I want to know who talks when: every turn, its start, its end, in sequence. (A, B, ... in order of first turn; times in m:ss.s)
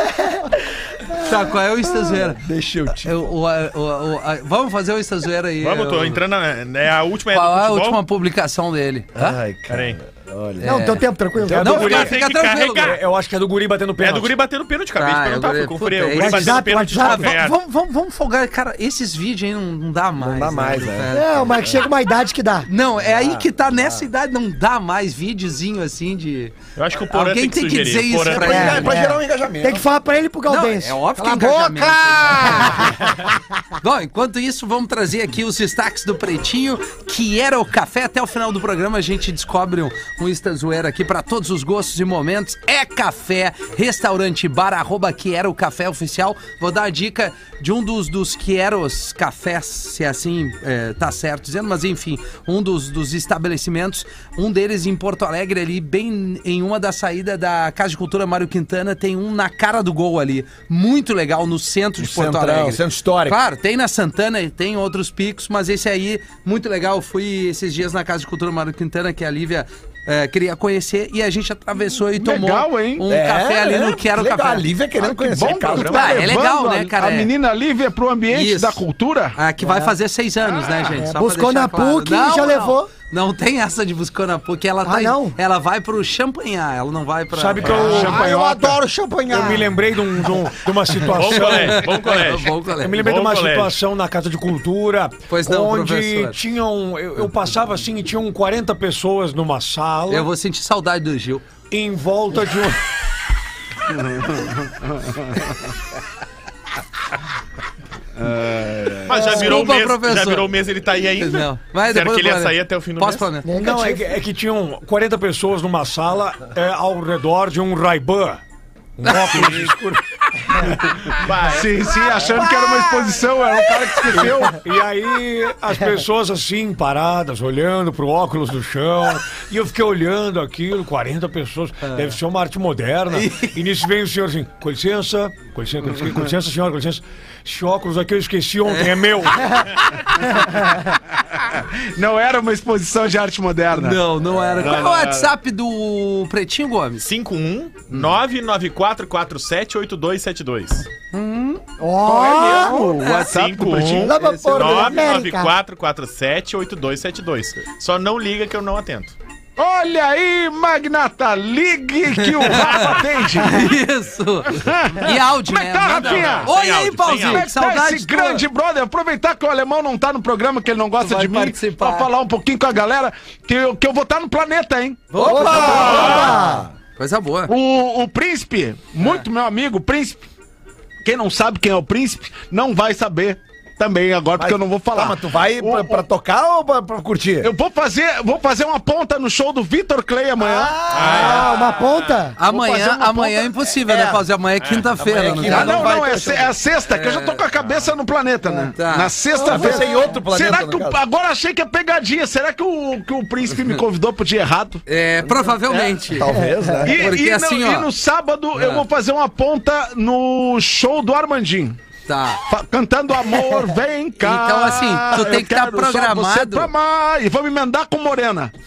0:01.2-0:02.4 A
0:02.4-0:03.2 B
0:03.0-0:06.2 A
0:05.6-0:08.0 C
0:07.3-0:09.4 A
0:09.1-0:10.6 B
0:09.7-0:10.0 C
0:10.6-0:13.0 A
0:10.6-0:12.0 D
0:11.5-0:14.4 E
0:11.5-0:11.8 B
0:11.7-0:13.0 C
0:14.0-0:17.6 C
0:15.0-0:21.3 A
0:16.2-0:17.4 D
0:20.2-0:21.8 B
0:21.1-0:22.7 D
0:22.7-0:26.6 A
0:23.0-0:23.4 B
0:26.8-0:28.9 C
0:27.1-0:28.9 A
0:28.3-0:29.8 B
0:28.3-0:31.0 D
0:30.4-0:32.9 A
0:31.2-0:33.0 F
0:33.8-1:14.7 A
1:02.0-1:03.4 B
1:12.0-1:13.0 G
1:13.1-1:16.3 B
1:15.0-1:19.4 G
1:15.7-1:17.3 A
1:18.3-1:18.8 A
1:19.4-1:28.0 A
1:19.6-1:19.9 D
1:20.6-1:20.9 G
1:20.9-1:22.9 D
1:24.8-1:25.4 D
1:27.3-1:28.2 E
1:27.6-1:28.8 G
1:27.7-1:29.8 F
1:29.3-1:32.1 E
1:31.0-1:33.8 C
1:31.3-1:33.0 A
1:32.8-1:40.3 E
1:35.3-1:36.4 A
1:40.1-1:41.4 A
1:41.7-1:42.8 E
1:43.9-1:45.5 G
1:48.2-1:49.4 G
1:49.0-1:53.3 C
1:49.1-1:49.6 D
1:49.2-1:50.5 A
1:51.2-1:53.5 A
1:53.4-1:54.1 D
1:53.6-1:58.4 E
1:59.0-2:00.0 E
1:59.0-1:59.5 A
2:00.8-2:04.6 G
2:01.2-2:01.9 C
2:02.3-2:03.2 F
2:04.4-2:19.6 E
2:11.8-2:12.1 A
2:13.1-2:13.6 A
2:18.6-2:19.1 A
2:21.4-2:25.3 G
2:23.7-2:27.1 A
2:27.0-2:30.9 C
2:31.1-2:31.6 A
2:31.8-2:32.9 D
2:32.0-2:34.2 G
2:32.8-2:33.3 A
2:33.3-2:39.1 C
2:33.9-2:35.5 D
2:34.2-2:34.9 A
2:39.6-2:43.7 G
2:42.3-2:48.4 A
2:44.5-2:46.5 G
2:45.9-2:47.5 C
2:47.1-2:56.3 G
2:51.0-2:52.1 A
2:55.1-2:56.3 A
2:55.2-2:56.7 D
2:55.2-2:56.7 B
2:57.0-2:57.5 A
2:57.5-3:00.2 G
3:01.0-3:06.0 G
3:04.4-3:07.5 B
3:07.4-3:11.4 G
3:10.4-3:11.6 B
3:10.9-3:12.2 C
3:10.9-3:12.4 D
3:12.4-3:16.0 A
3:12.4-3:13.5 G
3:13.8-3:14.2 B
3:14.6-3:14.9 C
3:15.0-3:16.5 B
3:15.4-3:24.8 G
3:16.9-3:17.4 A
3:17.6-3:17.9 C
3:18.7-3:19.8 A
3:19.3-3:21.0 B
3:24.9-3:26.3 A
3:25.7-3:25.9 G
3:26.1-3:27.1 B
3:26.3-3:26.8 D
3:26.8-3:31.8 G
3:26.9-3:27.9 A
3:28.5-3:28.8 A
3:32.1-3:32.4 A
3:32.4-3:38.5 G
3:34.2-3:36.7 A